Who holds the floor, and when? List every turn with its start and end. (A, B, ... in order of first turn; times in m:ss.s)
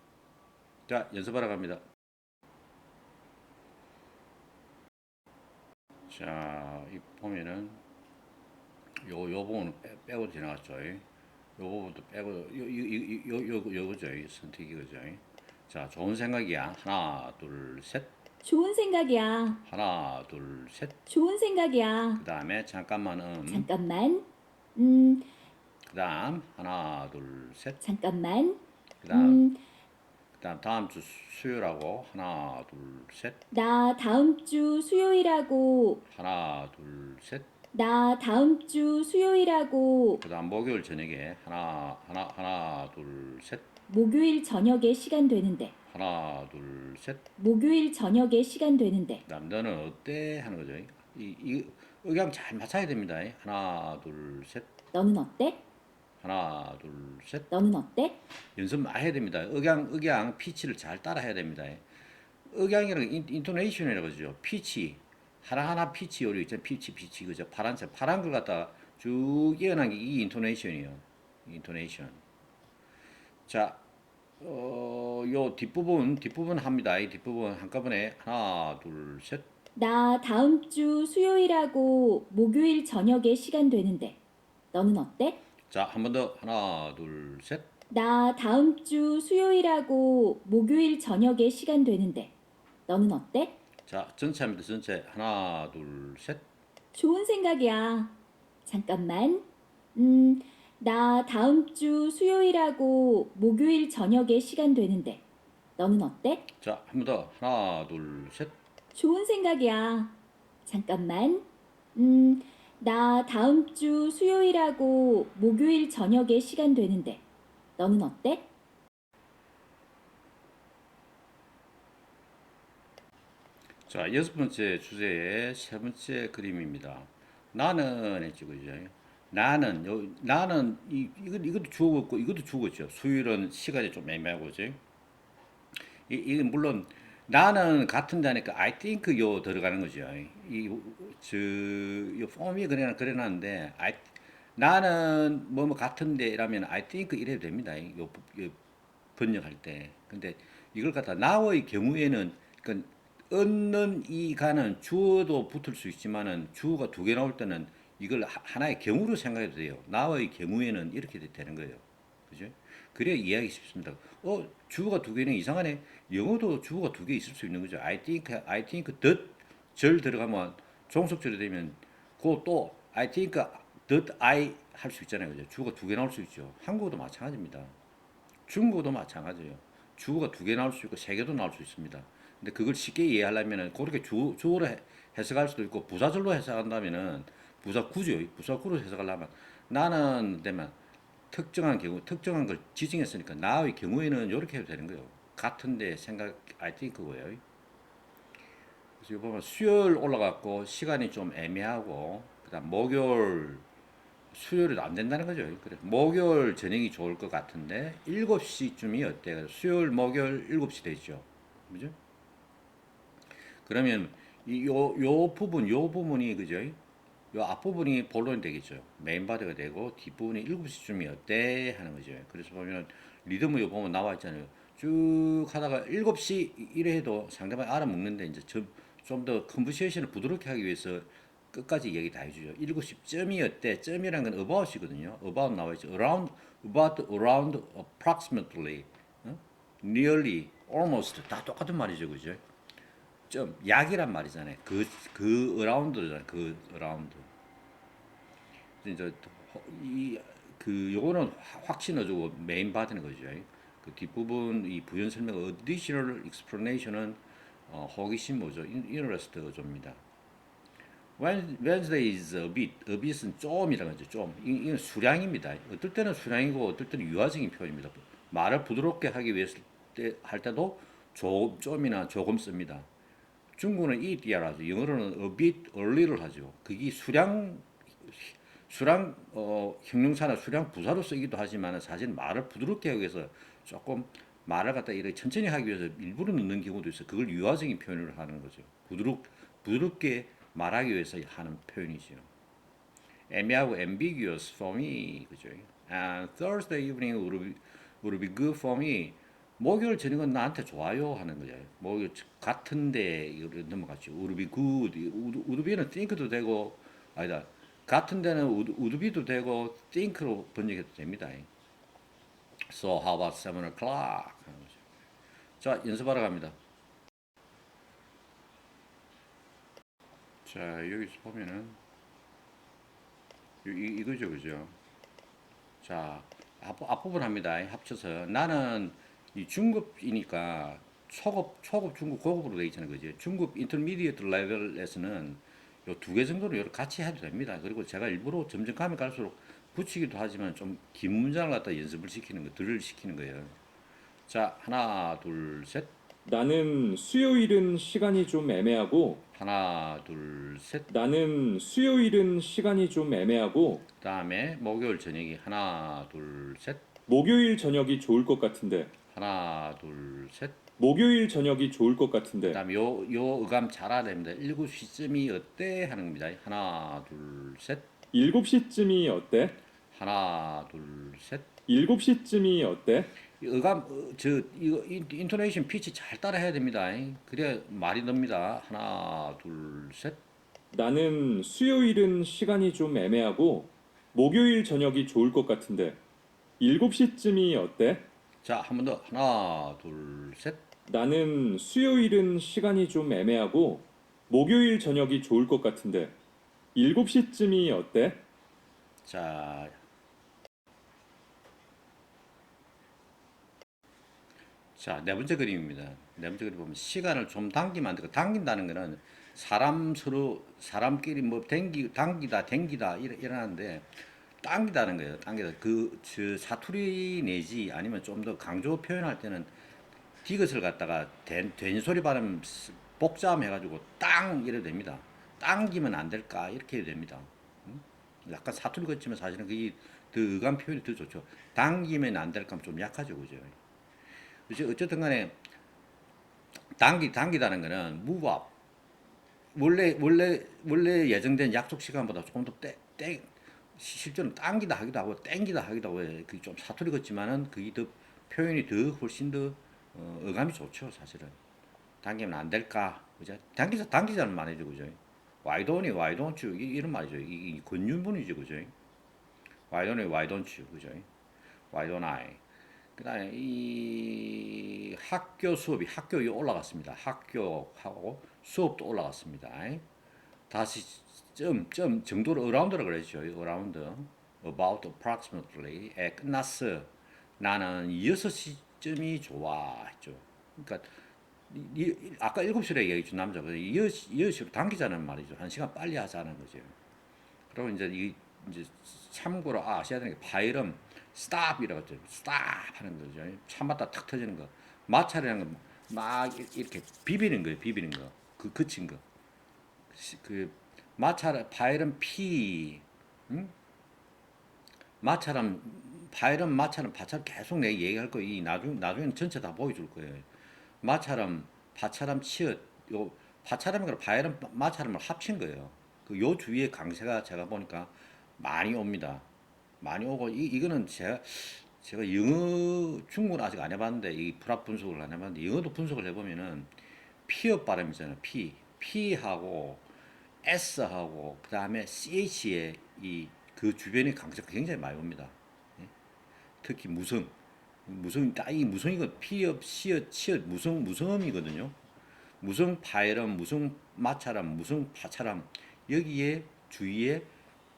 0:00.9-0:01.8 A
0:06.1-0:07.8 A
0:09.0-0:11.0 A
0:11.6-0:18.1 A
0:18.4-0:19.6 B
0:19.6-0:21.0 A
0:21.1-0:22.2 B
0:22.2-0:23.7 A
0:23.5-0:25.3 B
0:25.8-0:27.8 A
0:27.8-0:29.6 B
0:29.0-0:29.4 A
0:30.4-0:33.4 A
0:33.5-0:36.0 B
0:36.1-0:37.5 A
0:37.7-0:40.2 B
0:40.2-0:43.7 A
0:43.9-0:45.7 B
0:45.9-0:47.2 A
0:47.4-0:49.2 B
0:49.2-0:54.7 A
0:54.9-0:55.6 B
0:56.2-0:57.5 A
0:57.5-0:58.2 B
0:58.6-1:01.8 A
1:02.4-1:12.2 A
1:13.5-1:13.8 A
1:14.4-1:19.5 A
1:19.8-1:24.2 B
1:24.7-1:25.4 B
1:25.7-1:27.7 A
1:27.9-1:32.3 B
1:32.9-1:33.6 B
1:33.8-1:36.4 A
1:36.9-1:45.2 B
1:45.8-1:46.5 B
1:46.6-1:48.6 A
1:48.9-1:57.2 B
1:57.8-1:58.5 B
2:03.9-2:14.8 A
2:16.1-2:28.6 A
2:29.2-2:57.7 A
2:58.5-3:10.7 A
3:11.3-3:17.4 A
3:19.0-3:23.6 A
3:24.3-3:32.0 A
3:33.6-3:36.8 A
3:37.3-4:02.4 A
4:03.3-4:07.3 A
4:08.8-4:20.0 A
4:21.2-4:32.9 A
4:33.6-4:52.3 A
4:53.3-5:11.5 A
5:12.7-5:14.8 A
5:15.6-5:16.6 A
5:20.4-5:21.8 A
5:23.6-5:24.8 A
5:25.8-5:43.5 A
5:44.3-5:45.9 A
5:46.2-5:49.2 C
5:49.3-5:50.9 A
5:50.9-5:53.8 C
5:54.0-5:56.9 A
5:57.1-5:58.9 C
5:59.1-6:00.6 A
6:00.8-6:02.6 C
6:02.5-6:07.9 A
6:08.1-6:09.6 C
6:09.9-6:11.5 A
6:11.7-6:13.1 C
6:13.2-6:20.2 A
6:20.7-6:26.0 C
6:26.6-6:28.1 C
6:28.4-6:30.6 A
6:30.9-6:36.1 C
6:36.7-6:38.2 C
6:39.0-6:39.8 A
6:44.8-6:59.5 A
7:00.2-7:13.6 A
7:14.5-7:15.4 A
7:16.7-7:18.5 A
7:19.5-7:31.4 A
7:32.0-7:38.7 A
7:39.7-7:41.1 A
7:41.7-7:42.4 A
7:43.0-7:49.8 A
7:50.5-8:00.9 A
8:01.5-8:06.7 A
8:07.5-8:19.0 A
8:19.9-8:23.5 A
8:25.0-8:30.3 A
8:30.8-8:39.2 A
8:39.8-8:46.7 A
8:47.2-8:49.9 A
8:50.4-8:55.9 A
8:56.6-8:57.3 A
8:57.8-9:01.8 A
9:02.4-9:07.3 A